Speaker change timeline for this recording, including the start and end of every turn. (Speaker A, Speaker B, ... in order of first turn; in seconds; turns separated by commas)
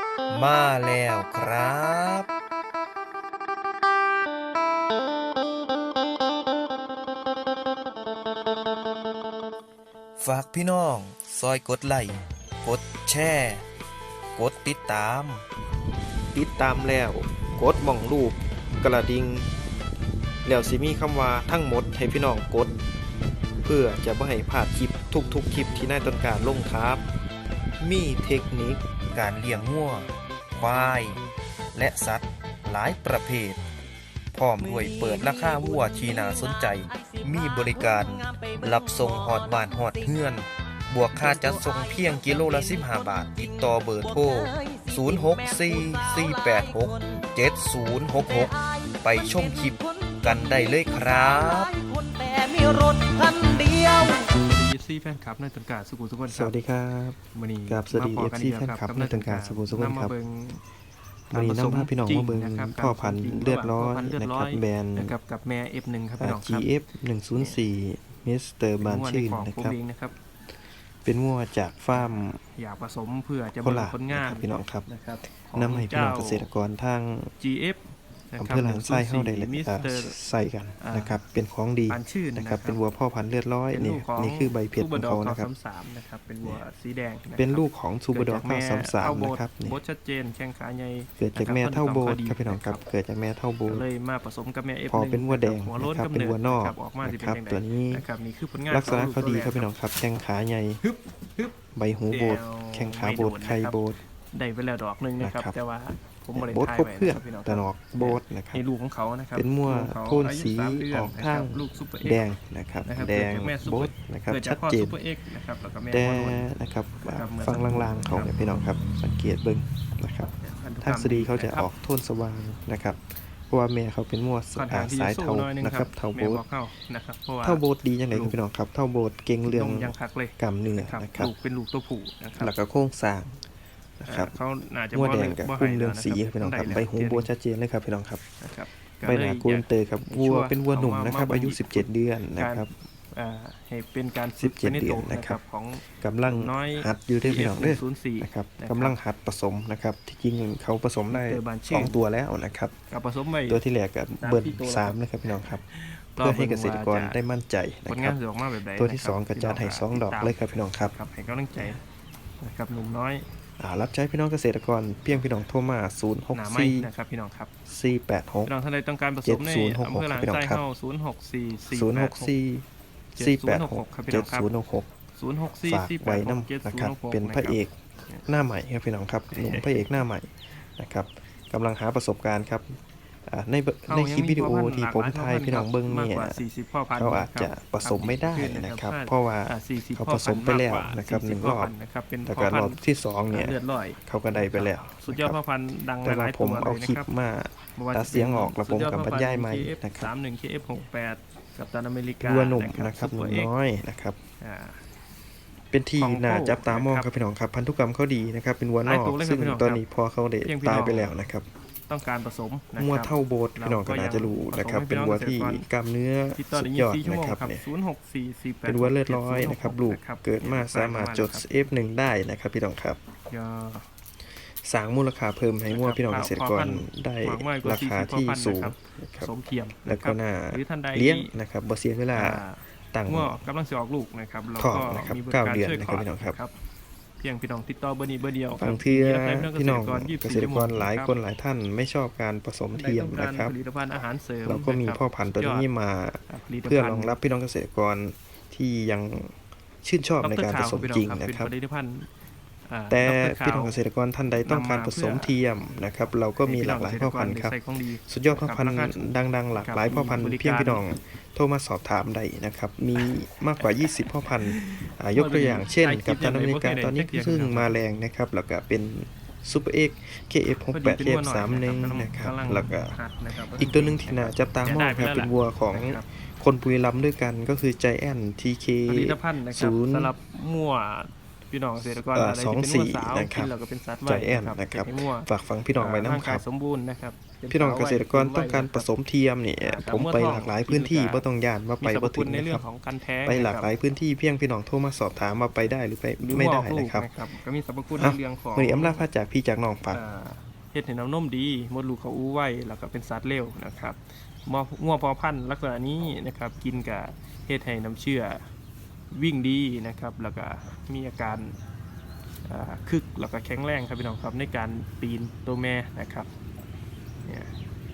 Speaker A: 0.3-2.3, Speaker A: 10.2-13.7, Speaker A: 14.4-15.4, Speaker A: 16.3-19.5, Speaker A: 20.4-22.8, Speaker A: 23.6-27.0, Speaker A: 27.8-31.2, Speaker A: 31.7-33.6, Speaker A: 34.3-51.8, Speaker B: 34.6-40.2, Speaker B: 41.1-47.4, Speaker B: 48.1-54.3, Speaker C: 53.3-56.5, Speaker A: 56.3-60.1, Speaker C: 57.3-60.6, Speaker A: 61.3-65.2, Speaker C: 61.3-66.7, Speaker A: 66.2-69.8, Speaker C: 67.3-67.6, Speaker C: 68.8-70.2, Speaker A: 71.0-72.4, Speaker C: 71.9-76.5, Speaker A: 73.6-74.9, Speaker A: 75.5-77.3, Speaker C: 77.4-80.2, Speaker A: 78.4-85.5, Speaker C: 80.8-81.2, Speaker C: 81.9-82.8, Speaker C: 83.7-92.8, Speaker A: 87.3-89.8, Speaker A: 91.2-93.9, Speaker C: 93.7-99.7, Speaker A: 94.9-98.0, Speaker A: 98.7-100.8, Speaker C: 100.8-101.6, Speaker A: 101.7-104.0, Speaker C: 102.1-112.3, Speaker A: 105.2-105.6, Speaker A: 106.3-108.6, Speaker A: 109.3-115.0, Speaker C: 112.8-116.5, Speaker A: 115.9-126.4, Speaker C: 117.0-118.3, Speaker C: 120.4-121.7, Speaker C: 124.6-128.4, Speaker A: 127.4-131.3, Speaker C: 129.5-132.6, Speaker A: 132.4-133.4, Speaker A: 134.0-134.4, Speaker C: 134.1-137.3, Speaker A: 134.9-138.2, Speaker C: 138.4-149.0, Speaker A: 139.0-142.7, Speaker A: 144.4-145.4, Speaker A: 146.0-152.8, Speaker C: 151.1-152.1, Speaker C: 152.9-153.6, Speaker A: 153.5-155.6, Speaker C: 154.2-155.0, Speaker C: 155.7-157.2, Speaker A: 156.2-161.0, Speaker C: 157.9-160.4, Speaker C: 160.9-161.8, Speaker C: 162.4-163.2, Speaker A: 163.6-166.9, Speaker C: 166.3-167.5, Speaker A: 167.7-168.5, Speaker C: 168.5-172.3, Speaker A: 169.2-170.6, Speaker A: 171.7-172.7, Speaker C: 173.2-174.5, Speaker A: 173.2-174.9, Speaker C: 175.1-178.3, Speaker A: 175.6-177.7, Speaker A: 178.3-186.4, Speaker C: 179.3-179.9, Speaker C: 183.9-197.1, Speaker A: 186.9-191.7, Speaker A: 192.2-195.4, Speaker A: 196.0-200.1, Speaker C: 197.8-203.5, Speaker A: 202.2-204.2, Speaker C: 204.4-204.8, Speaker A: 205.7-211.5, Speaker C: 206.0-207.1, Speaker C: 208.8-209.8, Speaker C: 210.4-211.2, Speaker C: 211.9-215.7, Speaker A: 212.8-217.7, Speaker C: 216.4-221.5, Speaker A: 218.7-223.0, Speaker C: 223.3-223.9, Speaker A: 224.6-229.3, Speaker C: 225.7-231.3, Speaker A: 229.8-233.4, Speaker C: 232.1-236.6, Speaker A: 234.6-236.4, Speaker C: 237.2-241.2, Speaker A: 238.6-243.6, Speaker C: 242.8-245.7, Speaker A: 244.4-251.5, Speaker C: 246.3-247.2, Speaker C: 250.2-252.1, Speaker C: 252.7-253.8, Speaker A: 252.9-280.1, Speaker C: 254.4-255.3, Speaker C: 256.4-260.9, Speaker C: 263.0-267.8, Speaker C: 270.7-276.0, Speaker C: 278.9-288.9, Speaker A: 281.8-283.5, Speaker A: 284.1-286.4, Speaker A: 287.5-292.7, Speaker C: 289.6-291.3, Speaker C: 291.8-293.7, Speaker A: 293.2-297.1, Speaker C: 296.2-299.1, Speaker A: 298.0-300.0, Speaker C: 299.9-308.5, Speaker C: 309.1-311.6, Speaker C: 312.5-316.3, Speaker C: 317.2-317.5